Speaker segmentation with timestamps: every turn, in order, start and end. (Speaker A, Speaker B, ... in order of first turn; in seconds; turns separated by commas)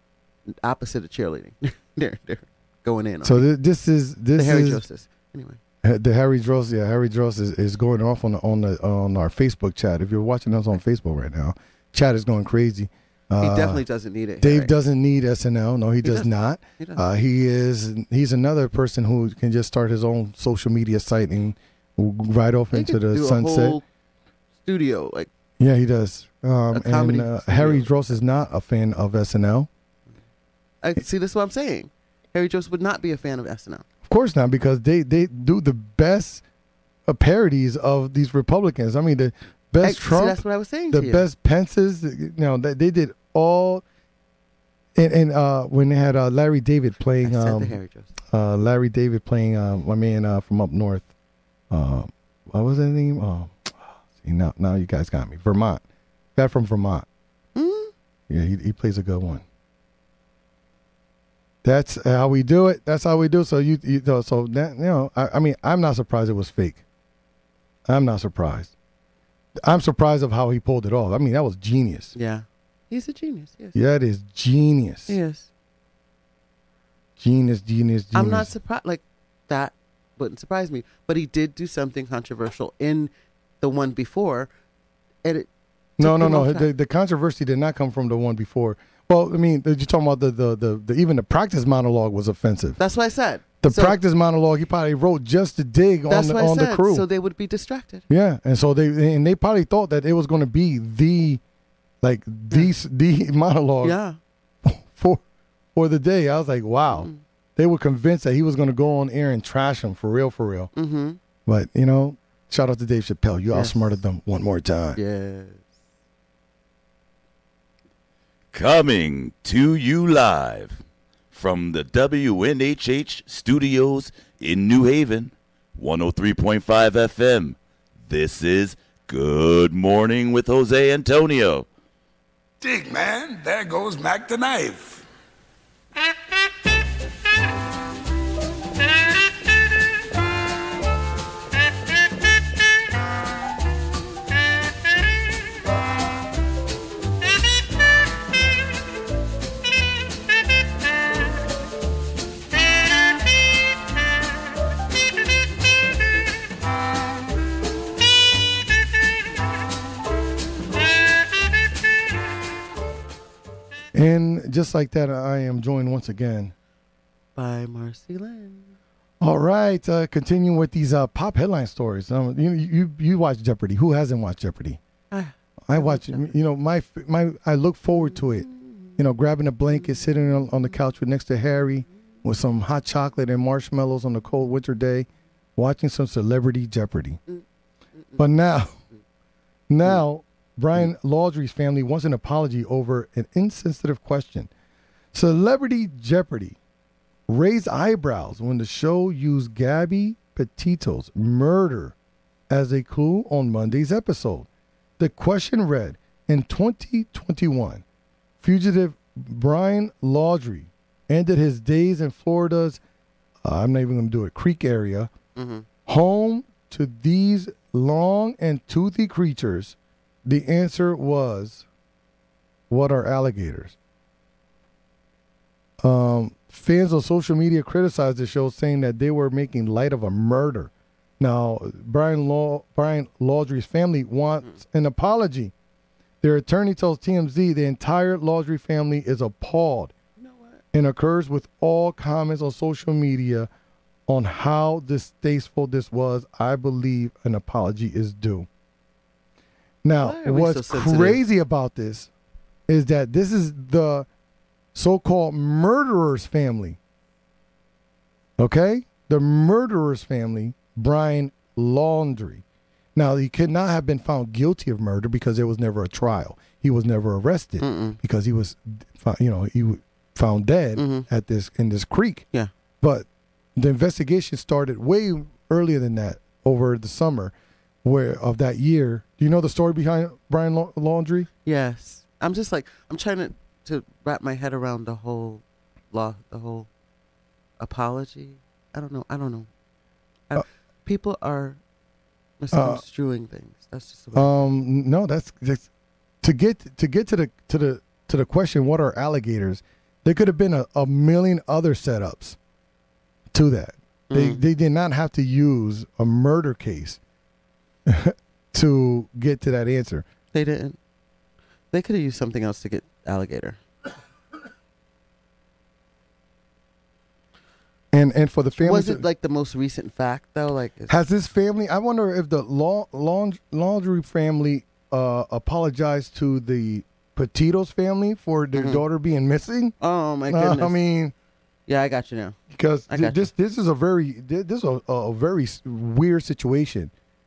Speaker A: 0.5-3.5, Speaker B: 3.2-4.8, Speaker A: 4.4-5.6, Speaker B: 5.8-13.8, Speaker A: 13.4-14.7, Speaker B: 14.4-23.8, Speaker A: 16.0-17.0, Speaker A: 22.7-23.8, Speaker A: 24.6-25.3, Speaker B: 25.6-29.7, Speaker A: 26.7-27.9, Speaker A: 30.8-33.9, Speaker B: 34.0-36.4, Speaker B: 37.1-43.8, Speaker A: 39.8-41.3, Speaker B: 45.0-47.8, Speaker A: 47.2-48.1, Speaker B: 48.3-51.1, Speaker B: 51.7-55.8, Speaker B: 56.4-57.1, Speaker A: 57.5-57.9, Speaker B: 58.3-59.4, Speaker B: 61.6-66.8, Speaker B: 67.9-68.7, Speaker B: 69.6-72.1, Speaker A: 72.1-73.8, Speaker B: 73.8-75.2, Speaker A: 75.1-75.5, Speaker B: 77.2-78.5, Speaker A: 78.1-84.5, Speaker A: 85.2-86.7, Speaker B: 86.0-92.8, Speaker A: 92.8-94.0, Speaker B: 93.6-97.0, Speaker A: 96.1-98.0, Speaker B: 98.1-101.4, Speaker B: 102.0-104.0, Speaker A: 103.8-104.2, Speaker B: 104.6-105.2, Speaker B: 105.8-110.7, Speaker A: 106.9-107.2, Speaker A: 110.8-111.2, Speaker B: 111.5-115.0, Speaker A: 113.5-114.0, Speaker A: 115.0-115.7, Speaker C: 118.5-120.8, Speaker C: 121.3-131.7, Speaker D: 132.6-135.0, Speaker B: 163.9-166.5, Speaker A: 167.4-168.7, Speaker B: 169.2-174.8, Speaker A: 175.1-176.3, Speaker B: 175.7-187.2, Speaker A: 178.5-178.8, Speaker B: 188.2-188.8, Speaker B: 189.7-194.5, Speaker B: 195.1-196.6, Speaker B: 197.3-201.9, Speaker B: 202.5-204.5, Speaker B: 205.0-207.8, Speaker B: 208.4-212.8, Speaker B: 213.4-215.1, Speaker A: 215.4-215.7, Speaker B: 215.9-221.7, Speaker B: 222.7-223.8, Speaker B: 225.8-235.5, Speaker B: 236.2-239.9, Speaker A: 240.2-240.6, Speaker B: 240.7-243.5, Speaker B: 244.1-248.5, Speaker B: 249.8-252.1, Speaker A: 250.0-251.2, Speaker B: 252.7-254.1, Speaker B: 254.7-256.8, Speaker B: 258.4-262.4, Speaker B: 262.9-272.3, Speaker A: 267.6-268.0, Speaker A: 270.8-271.1, Speaker B: 272.8-277.3, Speaker B: 277.8-281.3, Speaker A: 281.4-286.7, Speaker A: 287.6-289.5, Speaker A: 290.3-291.6, Speaker A: 292.4-294.4, Speaker B: 292.5-292.8, Speaker B: 294.1-295.7, Speaker B: 296.2-302.4, Speaker B: 303.3-307.0, Speaker A: 304.1-304.4, Speaker B: 307.9-310.1, Speaker A: 310.3-310.8, Speaker A: 311.7-313.6, Speaker B: 317.9-319.0, Speaker A: 318.6-320.9, Speaker B: 320.9-329.8, Speaker A: 328.5-328.8, Speaker A: 329.8-330.8, Speaker B: 330.3-331.1, Speaker A: 331.7-332.4, Speaker B: 332.5-336.9, Speaker A: 332.9-333.2